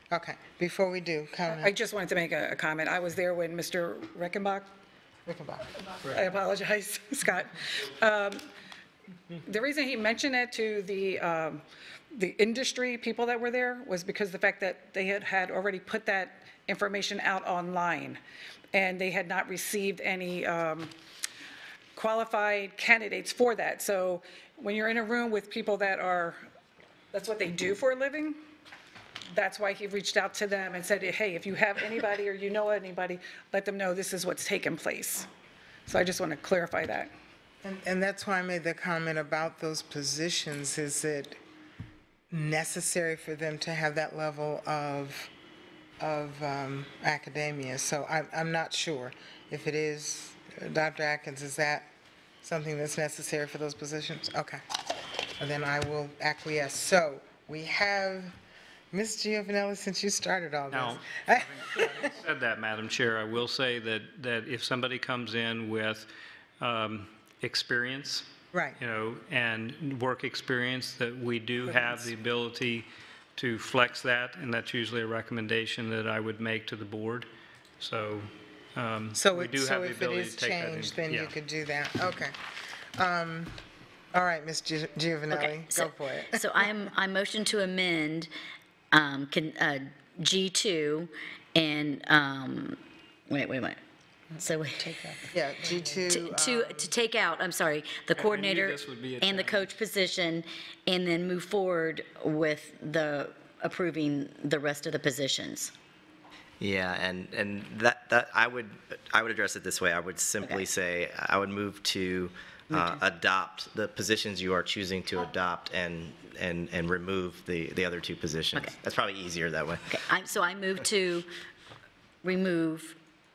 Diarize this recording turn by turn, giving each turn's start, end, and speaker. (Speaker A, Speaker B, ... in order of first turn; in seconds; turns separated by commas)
Speaker A: 0.1-1.7, Speaker B: 1.5-4.7, Speaker A: 5.3-5.7, Speaker B: 5.8-8.4, Speaker B: 9.4-18.2, Speaker B: 18.7-20.9, Speaker B: 21.9-26.4, Speaker B: 27.1-28.4, Speaker B: 29.3-35.3, Speaker B: 35.9-37.1, Speaker A: 37.6-41.4, Speaker A: 42.3-45.3, Speaker A: 46.0-51.9, Speaker A: 52.4-54.6, Speaker A: 55.4-58.4, Speaker A: 58.9-62.1, Speaker C: 60.7-66.1, Speaker C: 66.6-77.3, Speaker A: 68.5-68.8, Speaker C: 77.8-81.3, Speaker A: 79.2-82.3, Speaker A: 83.0-83.5, Speaker A: 84.1-86.5, Speaker D: 85.3-88.3, Speaker D: 88.9-92.8, Speaker D: 93.3-93.8, Speaker D: 94.4-95.2, Speaker A: 95.3-96.9, Speaker D: 96.1-105.7, Speaker C: 98.2-99.7, Speaker E: 106.6-119.9, Speaker D: 112.7-113.0, Speaker D: 119.9-121.3, Speaker D: 122.2-123.0